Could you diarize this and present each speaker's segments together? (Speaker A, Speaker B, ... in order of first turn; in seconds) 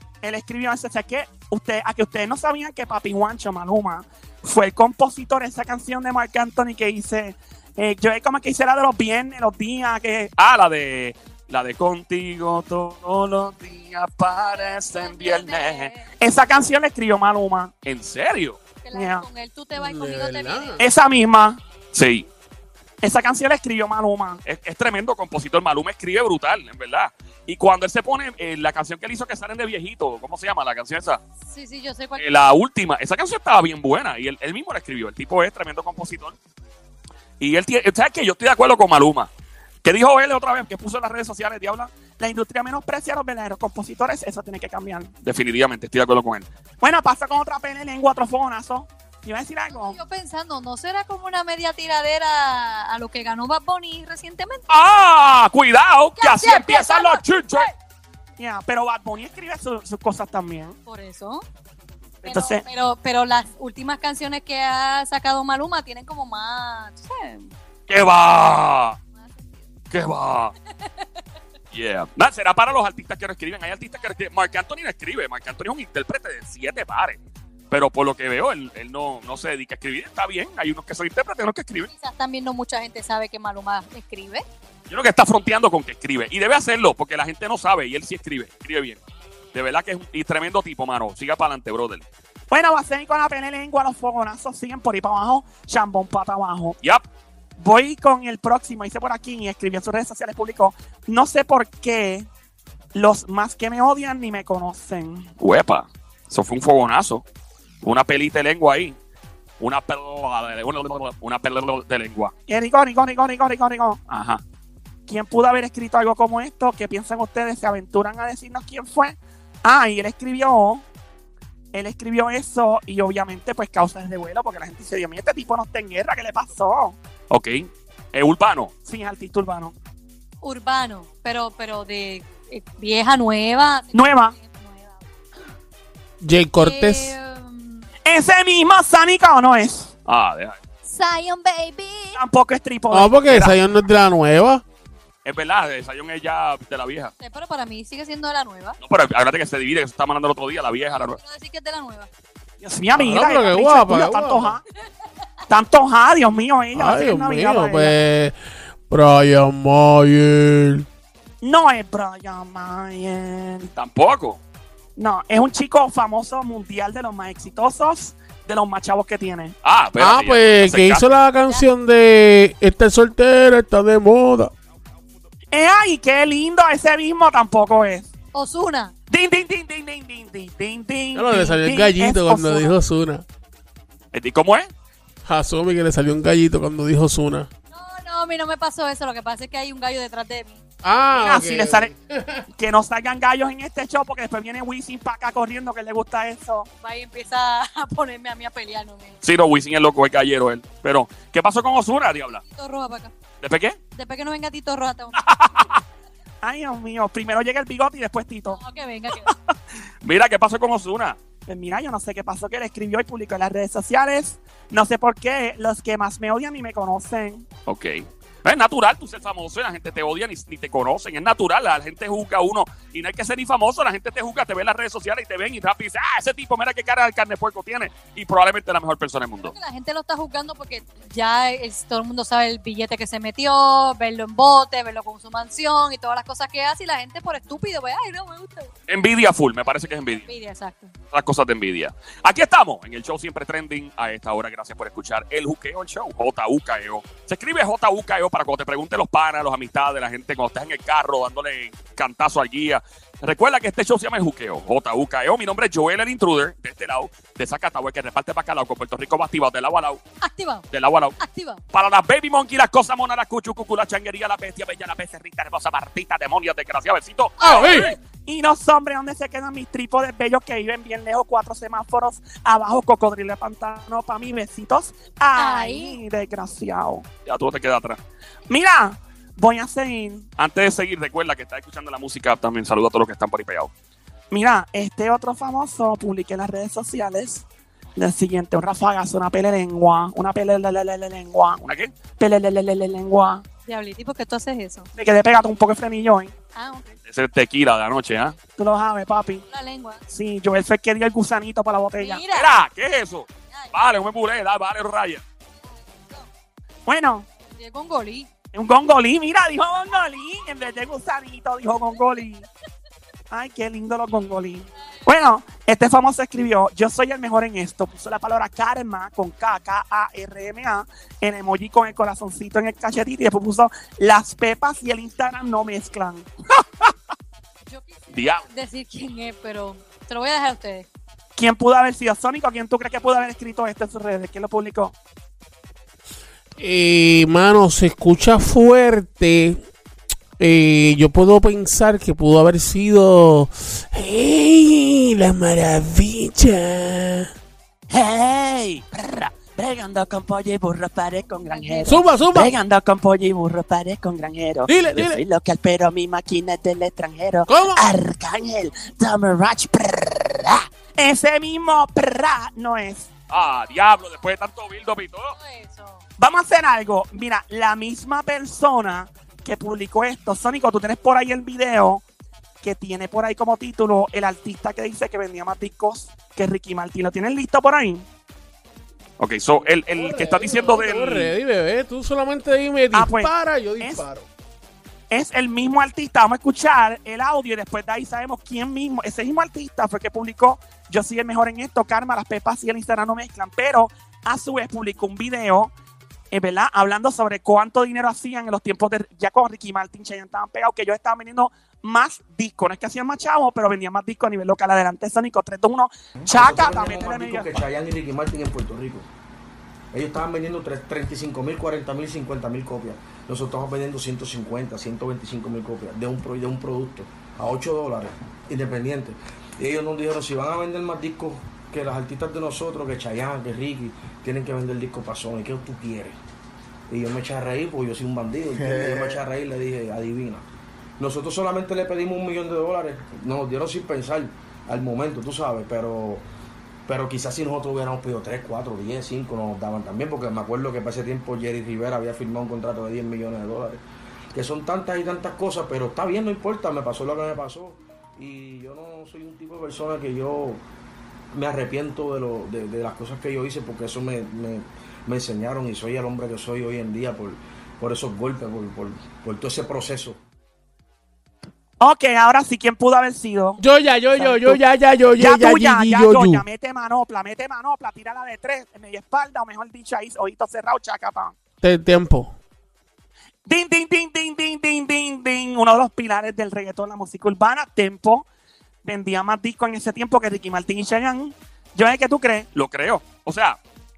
Speaker A: 0.2-10.3, 16.2-17.7, 18.9-19.2, 20.8-21.6, 23.0-24.4, 42.1-45.1, 46.8-50.0, 58.4-60.8, 62.2-62.6, 92.5-96.8, 97.6-102.3, 102.9-105.3, 112.5-114.0, 115.1-120.8, 121.7-127.0, 128.8-129.8, 133.9-134.3, 138.1-139.9, 142.2-143.6, 152.6-154.6, 155.5-158.0, 161.4-163.7, 165.0-169.6, 175.5-178.1, 179.1-182.8, 191.2-191.9, 192.5-196.7, 206.4-208.6, 211.5-217.5, 267.5-277.1, 278.5-280.3, 284.3-287.4, 288.0-293.4, 295.0-296.3, 298.6-299.4, 300.1-302.2, 306.9-307.3, 308.5-312.5, 313.3-326.3, 331.4-334.9, 347.9-363.1, 366.2-372.0, 372.6-378.1, 382.9-384.0, 385.1-395.7, 396.3-407.6, 461.8-463.6, 464.2-464.6, 465.2-471.4, 473.5-478.3, 478.8-482.5
Speaker B: 10.4-15.9, 17.9-18.6, 21.9-22.3, 24.4-31.2, 32.2-36.4, 37.4-39.3, 39.8-41.9, 45.2-46.5, 54.7-57.7, 67.9-69.0, 69.9-70.5, 71.7-77.2, 77.7-81.9, 84.9-89.0, 89.5-92.0, 105.4-107.2, 107.8-109.0, 109.6-112.3, 114.1-114.4, 127.3-128.7, 140.1-140.6, 145.2-147.1, 148.8-151.2, 163.8-164.4, 169.6-171.1, 184.1-184.7, 199.2-202.4, 203.4-203.8, 205.2-205.8, 210.0-211.2, 217.7-229.5, 238.9-240.3, 241.1-260.0, 260.7-261.2, 261.7-267.9, 277.3-278.0, 280.4-283.7, 291.6-291.9, 297.1-298.4, 302.3-305.2, 328.1-328.4, 363.3-365.4, 379.2-381.3, 482.6-483.6
Speaker C: 14.4-16.1, 18.8-20.8, 31.4-32.2, 49.7-54.7, 56.2-57.7, 60.9-61.4, 62.2-67.5, 69.2-69.7, 70.8-71.1, 81.9-84.5, 130.4-135.0, 136.6-137.8, 140.9-142.2, 147.2-148.8, 150.9-152.1, 178.3-178.9, 187.7-190.6, 196.8-199.2, 202.4-203.1, 203.9-205.3, 208.5-209.3, 229.4-238.7, 240.2-240.9, 260.2-260.6, 261.2-261.6, 267.5-267.9, 275.4-276.0, 293.7-294.9, 296.6-297.0, 299.5-300.0, 302.0-302.6, 305.6-306.3, 307.5-308.3, 327.7-330.9, 351.4-352.1, 365.3-366.0
Speaker D: 19.7-20.8, 136.2-137.2, 142.9-144.6, 152.9-154.6, 156.7-158.3, 158.9-160.9, 170.0-174.5, 181.1-183.2, 185.2-187.5, 190.8-192.4, 267.4-267.9, 336.6-339.6, 340.4-347.3, 351.9-352.6, 354.7-355.2, 357.5-357.8, 379.9-384.3, 463.6-466.4, 471.6-472.4
Speaker E: 406.2-409.1, 409.9-426.2, 426.9-430.5, 431.0-436.2, 436.9-443.8, 444.3-450.6, 451.3-460.2